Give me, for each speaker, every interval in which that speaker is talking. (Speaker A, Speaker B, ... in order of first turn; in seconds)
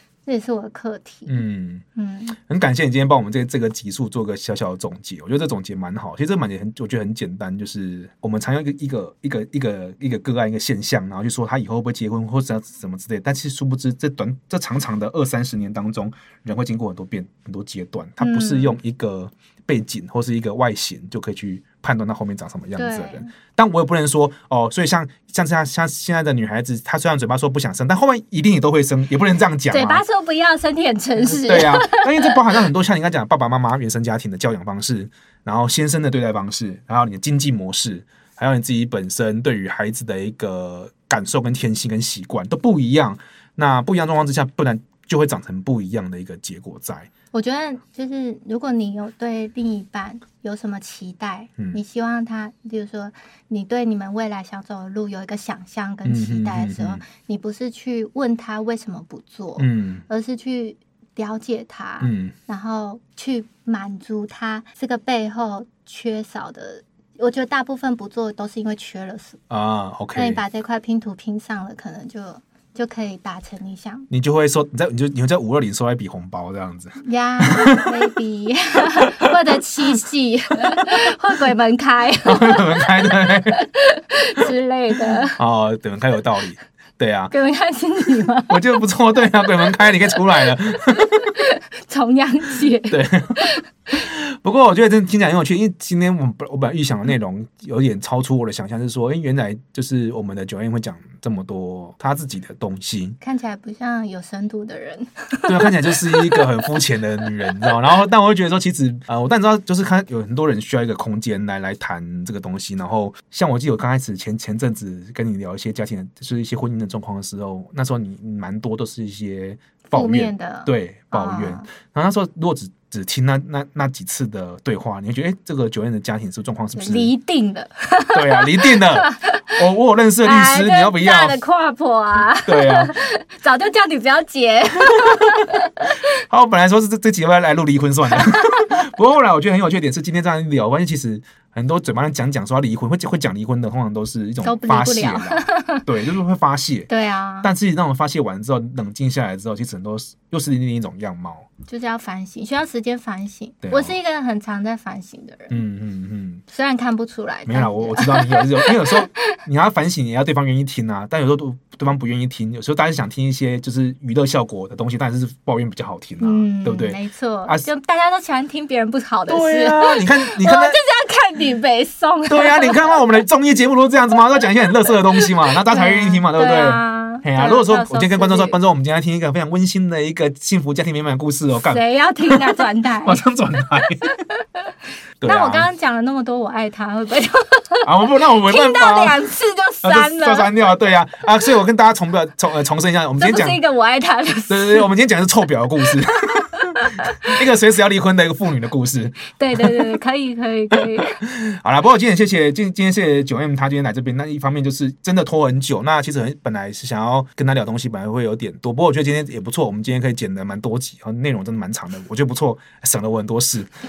Speaker A: 0.2-1.4, 1.9-2.4, 18.2-18.8, 22.8-23.3, 29.7-32.6, 47.3-69.4, 70.1-74.1, 77.0-85.4, 87.3-88.8, 89.7-93.6, 103.2-106.7, 107.4-107.7, 119.9-121.7, 126.7-129.5, 130.2-136.0, 144.4-145.8, 146.9-147.5, 151.7-155.6, 156.5-159.2, 166.2-173.0, 174.3-178.6, 181.6-183.2, 183.9-184.7, 185.2-190.5, 193.2-194.9, 196.6-197.3, 199.3-201.2
Speaker B: 1.3-1.8, 2.4-30.0, 31.2-47.1, 56.0-57.0, 59.6-60.0, 62.0-62.3, 69.5-70.4, 74.1-77.9, 82.2-83.6, 85.3-87.3, 88.5-91.3, 92.9-103.2, 105.5-127.1, 128.1-131.4, 132.4-132.9, 136.3-146.9, 147.4-151.5, 153.6-153.9, 155.5-156.4, 157.4-167.7, 169.3-170.8, 172.3-184.0, 185.2-185.7, 187.8-189.2, 189.8-193.6, 194.5-196.6, 197.2-200.0, 200.7-213.7